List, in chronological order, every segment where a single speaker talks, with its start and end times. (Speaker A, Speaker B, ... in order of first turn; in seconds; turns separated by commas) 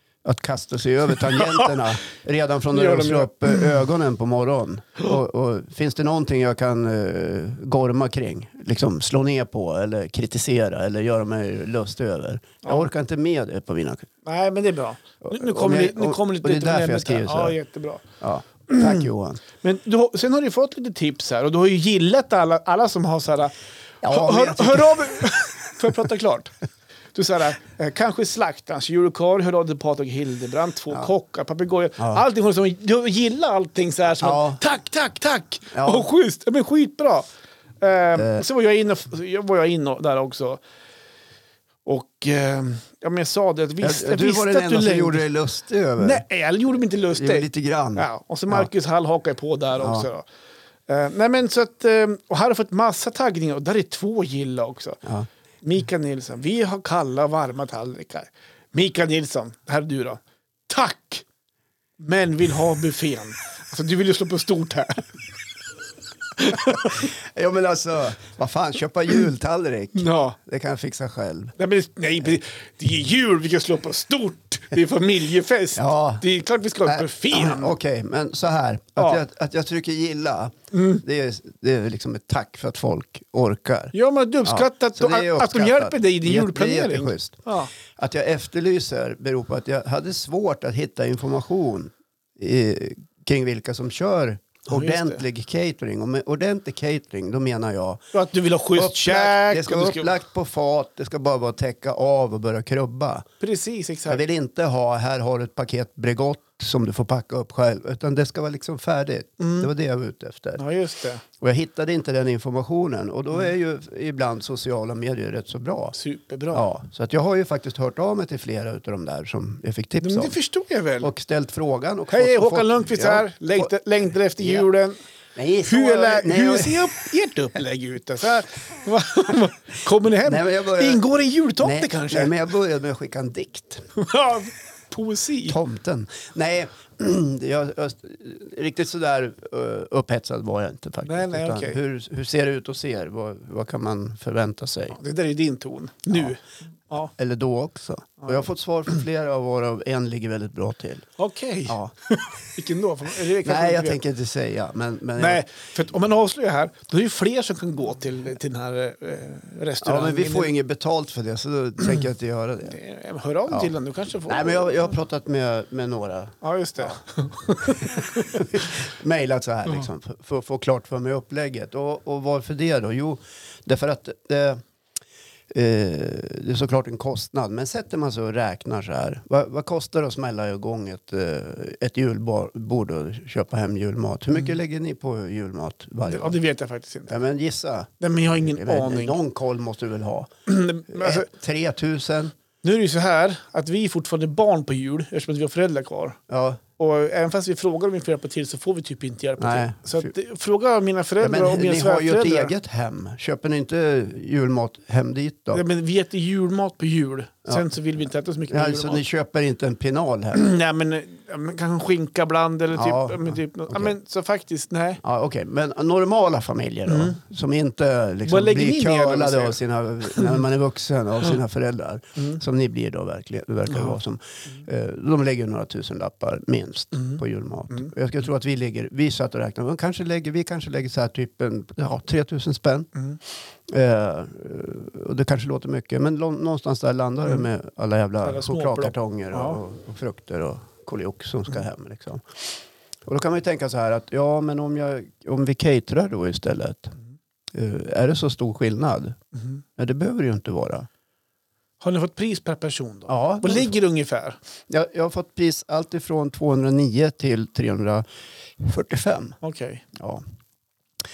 Speaker A: 0.2-14.1, Speaker B: 1.4-1.6, Speaker B: 2.7-3.8, Speaker B: 14.2-18.0, Speaker A: 15.2-17.6, Speaker A: 18.2-19.4, Speaker B: 18.7-19.0, Speaker B: 19.6-23.5, Speaker A: 24.0-25.9, Speaker B: 24.0-26.5, Speaker B: 27.1-37.3, Speaker A: 34.2-34.6, Speaker A: 35.7-36.1, Speaker B: 37.8-40.6, Speaker A: 38.1-38.4, Speaker B: 41.8-45.3, Speaker A: 43.8-46.2, Speaker B: 46.0-50.3, Speaker A: 47.1-48.7, Speaker A: 49.8-50.1, Speaker B: 50.9-55.0, Speaker B: 55.6-61.2, Speaker B: 62.0-65.1, Speaker B: 66.4-67.0, Speaker A: 66.6-71.5, Speaker B: 69.9-70.3, Speaker B: 71.6-77.7, Speaker A: 75.8-76.2, Speaker A: 76.8-87.4, Speaker B: 80.7-81.0, Speaker B: 83.9-87.7, Speaker A: 88.0-98.0, Speaker B: 94.7-95.2, Speaker B: 98.1-100.1, Speaker A: 98.7-103.3, Speaker B: 103.4-104.2, Speaker A: 104.1-110.6, Speaker B: 109.4-109.7, Speaker B: 110.6-111.2, Speaker A: 111.4-116.0, Speaker B: 116.0-116.7, Speaker A: 116.5-120.4, Speaker B: 120.0-121.1, Speaker A: 121.0-123.7, Speaker B: 122.1-125.0, Speaker A: 124.4-124.7, Speaker A: 125.3-126.9, Speaker B: 125.6-132.3, Speaker A: 130.2-131.0, Speaker A: 131.6-133.9, Speaker B: 133.9-135.6, Speaker A: 135.4-145.0, Speaker B: 141.1-141.8, Speaker B: 144.9-147.1, Speaker A: 147.2-151.1, Speaker B: 151.2-154.0, Speaker A: 151.7-151.9, Speaker A: 153.4-155.5, Speaker B: 155.2-160.5, Speaker A: 159.8-162.8, Speaker B: 162.7-164.9, Speaker A: 164.2-166.9, Speaker B: 166.4-168.4, Speaker A: 167.6-174.6, Speaker A: 175.5-186.4, Speaker B: 186.1-187.1, Speaker A: 187.1-190.3, Speaker B: 188.0-189.2, Speaker B: 190.5-191.3, Speaker A: 190.9-192.3, Speaker B: 192.6-196.2, Speaker A: 196.3-196.6, Speaker B: 196.8-202.5, Speaker A: 199.4-200.1, Speaker A: 201.2-205.6, Speaker B: 205.5-209.0, Speaker A: 208.5-210.4, Speaker B: 210.3-215.0, Speaker A: 212.7-213.9, Speaker A: 215.0-232.9, Speaker B: 216.9-217.2, Speaker B: 218.2-220.4, Speaker B: 223.7-224.0, Speaker A: 233.7-242.5, Speaker B: 238.2-239.6, Speaker A: 243.1-246.9, Speaker A: 247.5-249.2, Speaker A: 249.8-250.9, Speaker B: 251.8-254.4, Speaker A: 253.1-253.7, Speaker A: 254.7-258.0, Speaker A: 258.6-259.4, Speaker B: 259.4-259.8, Speaker A: 259.9-260.2